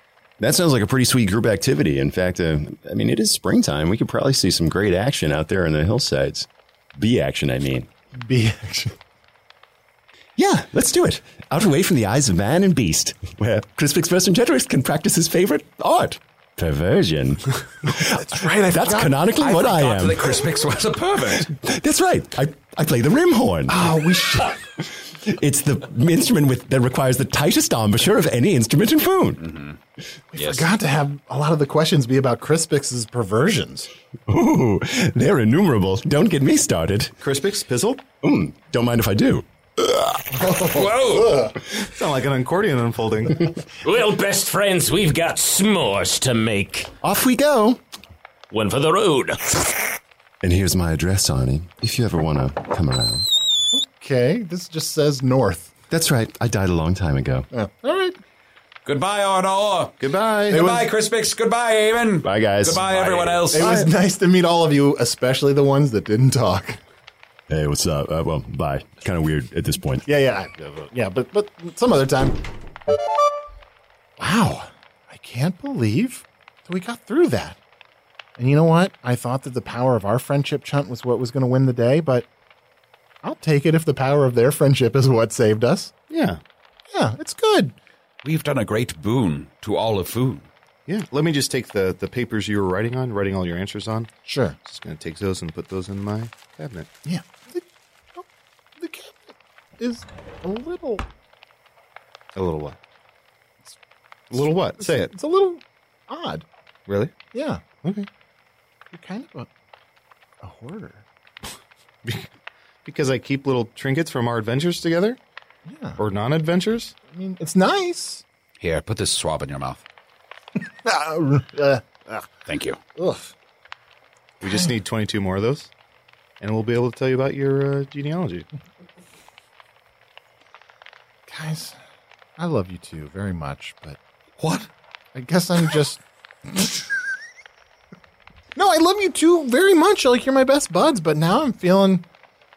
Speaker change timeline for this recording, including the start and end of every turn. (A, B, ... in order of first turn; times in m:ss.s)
0:00.4-0:07.9 A
0:08.2-0:09.0 B
0:10.4-0:20.5 A
0:17.9-0:19.2 B
0:19.4-0:21.5 C
0:21.4-0:24.0 A
0:23.7-0:24.6 B
0:24.9-0:29.4 A
0:29.4-0:29.8 C
0:30.3-0:33.9 B
0:30.4-0:30.7 C
0:34.3-0:37.1 A
0:37.2-0:38.0 D
0:38.2-0:40.2 A
0:40.3-0:41.6 B
0:40.7-0:41.4 C
0:41.8-0:43.5 D
0:43.8-0:46.9 E
0:47.0-0:47.8 A
0:48.5-0:49.6 E
0:50.4-0:53.3 A
0:53.7-0:55.7 B
0:55.9-0:57.5 A
0:57.5-0:58.2 B
0:58.8-1:03.9 C
1:00.0-1:00.6 D
1:00.5-1:00.9 B
1:02.2-1:03.9 A
1:03.5-1:06.8 B
1:07.5-1:10.1 A
1:10.1-1:12.4 B
1:14.2-1:17.6 B
1:18.4-1:22.3 B
1:23.2-1:25.9 B
1:26.1-1:26.4 D
1:26.9-1:27.8 B
1:28.2-1:30.5 C
1:30.9-1:34.1 D
1:34.3-1:34.6 B
1:34.6-1:36.9 D
1:37.0-1:38.3 B
1:38.8-1:41.0 B
1:42.4-1:42.8 D
1:44.3-1:45.1 D
1:44.3-1:46.4 B
1:46.9-1:47.2 D
1:47.3-1:47.6 B
1:47.8-1:48.1 D
1:48.9-1:49.5 B
1:50.4-1:51.0 B
1:52.8-1:55.2 D
1:55.7-1:56.0 B
1:56.0-1:57.0 D
1:57.1-1:58.2 B
1:58.6-1:59.8 C
2:00.8-2:02.3 B
2:02.5-2:02.8 C
2:03.0-2:03.3 B
2:04.4-2:05.7 D
2:04.4-2:04.7 B
2:06.4-2:08.5 D
2:11.3-2:11.8 B
2:12.4-2:14.0 B
2:14.4-2:14.7 C
2:15.2-2:16.8 B
2:18.6-2:22.0 B